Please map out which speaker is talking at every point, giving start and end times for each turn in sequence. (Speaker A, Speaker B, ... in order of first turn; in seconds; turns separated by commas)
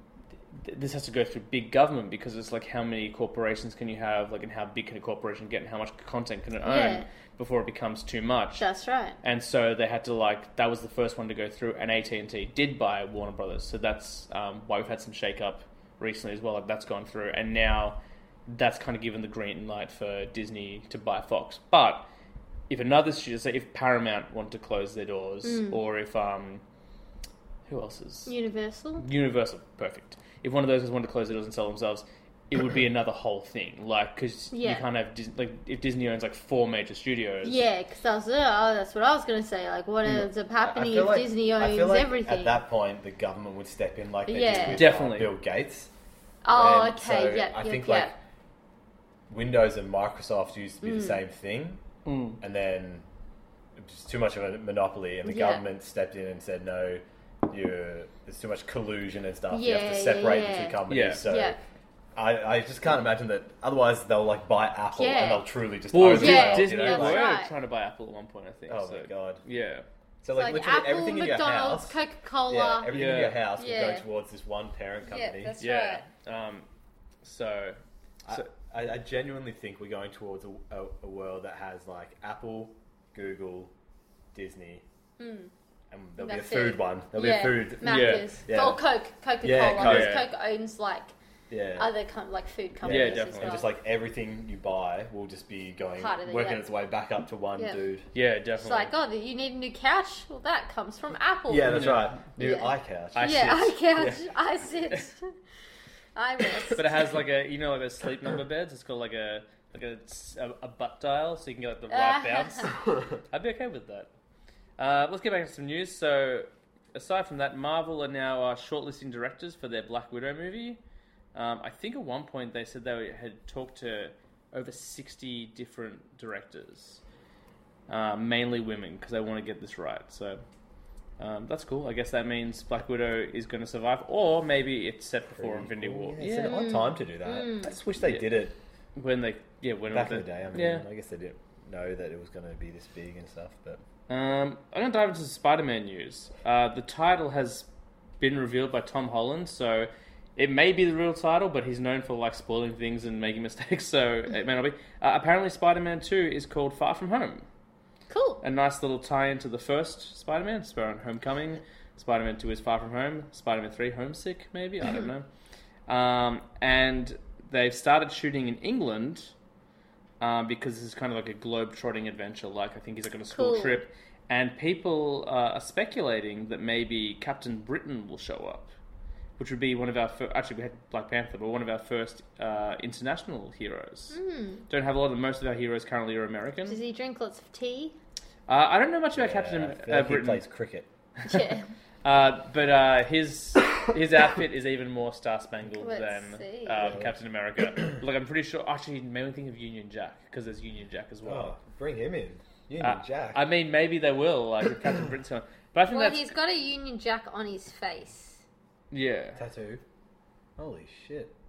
Speaker A: 0.5-8.7, Speaker B: 6.6-7.1, Speaker B: 8.6-9.2, Speaker A: 9.2-22.1, Speaker A: 22.7-26.6, Speaker B: 25.4-25.8, Speaker A: 27.7-28.3, Speaker B: 28.3-29.1, Speaker A: 29.0-37.6, Speaker B: 34.5-34.8, Speaker B: 37.4-42.6, Speaker C: 40.6-45.9, Speaker B: 44.3-44.9, Speaker A: 44.7-45.4, Speaker B: 46.4-48.1, Speaker C: 46.5-48.2, Speaker C: 49.3-51.8, Speaker B: 50.8-51.2, Speaker A: 52.1-52.4, Speaker C: 52.4-53.1, Speaker C: 53.8-61.6, Speaker B: 55.2-55.6, Speaker B: 59.5-61.6, Speaker A: 60.9-61.2, Speaker C: 62.2-67.3, Speaker B: 65.0-65.5, Speaker A: 65.9-69.9, Speaker B: 66.0-67.5, Speaker C: 68.7-69.4, Speaker C: 70.2-75.6, Speaker B: 70.3-72.9, Speaker A: 72.9-73.5, Speaker B: 73.6-74.1, Speaker B: 75.0-76.1, Speaker A: 75.6-76.7, Speaker A: 77.2-78.5, Speaker C: 78.2-83.7, Speaker C: 84.3-84.8, Speaker B: 85.2-85.5, Speaker C: 85.9-88.8, Speaker B: 86.2-91.1, Speaker A: 87.8-88.3, Speaker C: 89.4-90.2, Speaker A: 89.8-90.3, Speaker C: 91.5-91.9, Speaker B: 91.8-93.7, Speaker A: 92.8-93.6, Speaker C: 92.8-98.1, Speaker B: 96.0-96.7, Speaker A: 98.1-98.9, Speaker B: 98.6-105.3, Speaker C: 101.5-103.4, Speaker A: 101.7-103.8, Speaker C: 104.0-104.2, Speaker B: 106.2-106.8, Speaker A: 106.7-114.1, Speaker B: 111.9-112.8, Speaker A: 114.8-120.8, Speaker A: 121.3-127.0, Speaker A: 127.9-130.4, Speaker A: 131.2-136.7, Speaker C: 135.3-138.6, Speaker B: 136.3-137.8, Speaker A: 138.0-138.4, Speaker A: 139.0-140.9, Speaker C: 139.9-143.8, Speaker A: 144.1-147.7, Speaker A: 148.2-157.5, Speaker B: 158.1-158.4, Speaker A: 158.4-165.3, Speaker B: 164.8-165.1, Speaker A: 165.9-169.3, Speaker A: 170.2-178.7, Speaker B: 173.3-173.8, Speaker A: 179.4-184.2, Speaker B: 184.1-184.7, Speaker A: 184.7-186.8, Speaker B: 186.7-188.0, Speaker A: 188.5-190.4, Speaker C: 189.1-190.9, Speaker B: 191.2-191.7, Speaker A: 192.0-201.6, Speaker B: 195.8-196.9, Speaker C: 196.8-197.1, Speaker C: 201.2-203.4, Speaker A: 202.8-206.3, Speaker B: 205.9-208.4, Speaker A: 208.9-209.4, Speaker C: 209.4-209.8, Speaker C: 210.6-211.3